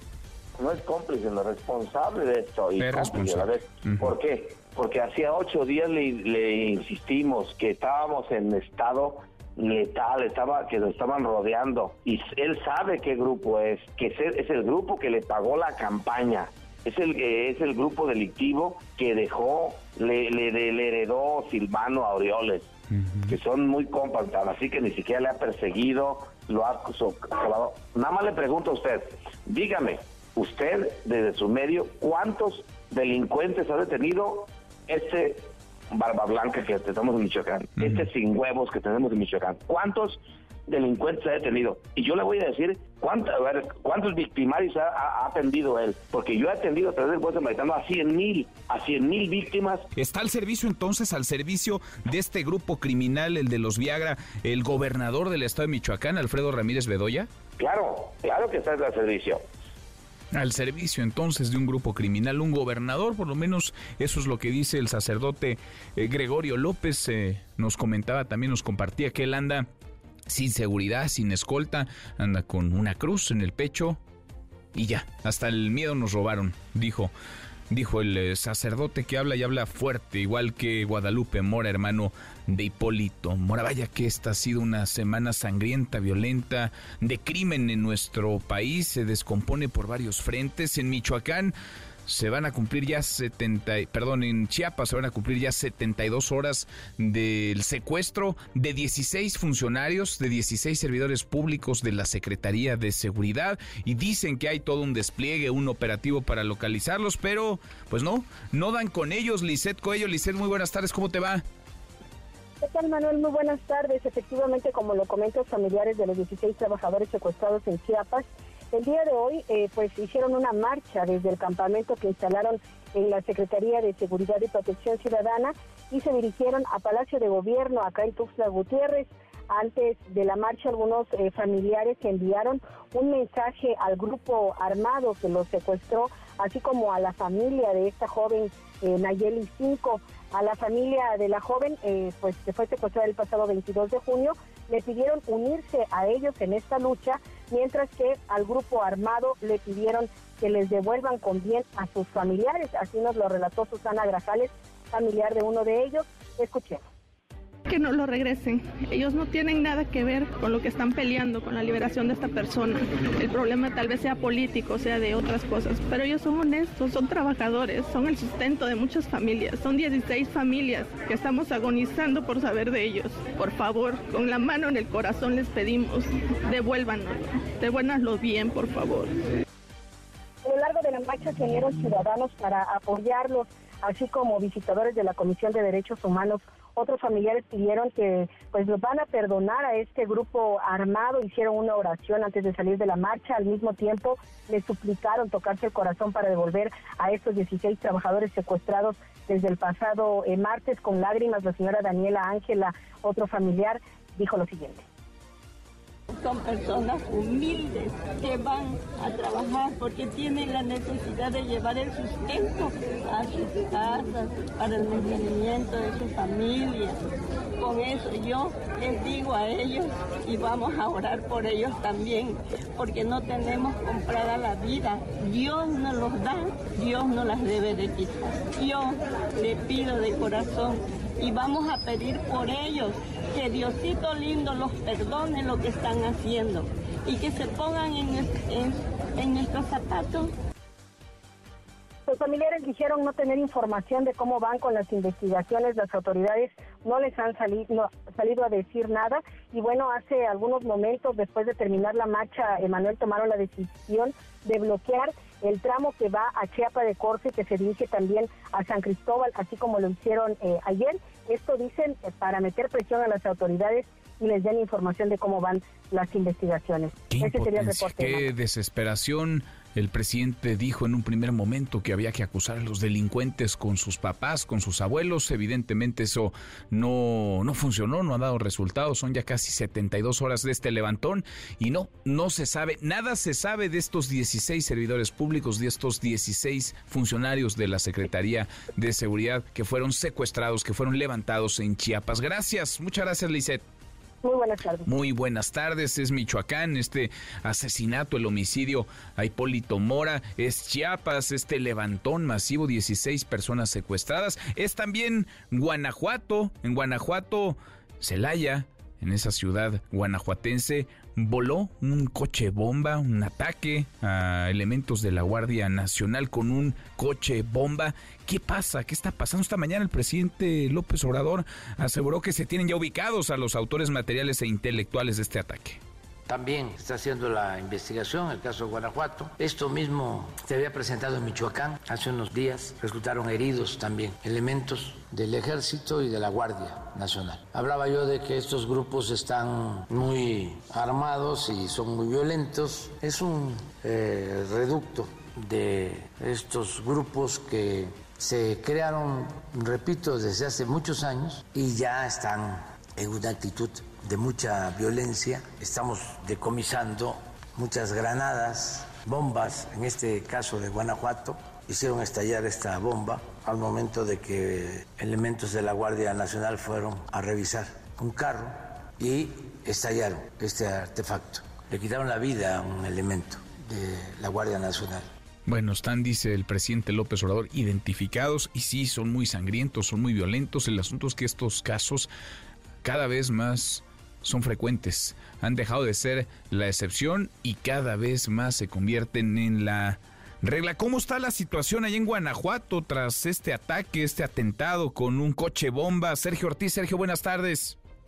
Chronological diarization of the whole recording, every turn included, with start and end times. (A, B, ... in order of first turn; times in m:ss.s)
0:00.6-0:22.7 A
0:02.8-0:04.1 B
0:22.9-0:23.4 B
0:23.3-0:49.8 A
0:49.9-0:57.3 B
0:57.6-0:59.4 A
1:00.3-1:09.7 B
1:10.3-1:14.0 B
1:14.7-1:17.1 B
1:17.7-1:31.5 B
1:32.0-1:51.4 B
1:52.6-2:36.8 C
2:37.6-2:59.2 D
3:00.4-3:24.8 C
3:26.1-3:37.0 E
3:37.6-4:00.3 E
4:02.1-4:28.3 C
4:27.1-4:53.6 B
4:54.2-4:54.9 C
4:54.8-5:25.8 B
5:26.3-6:15.1 F
6:15.4-6:22.1 B
6:22.8-6:37.8 B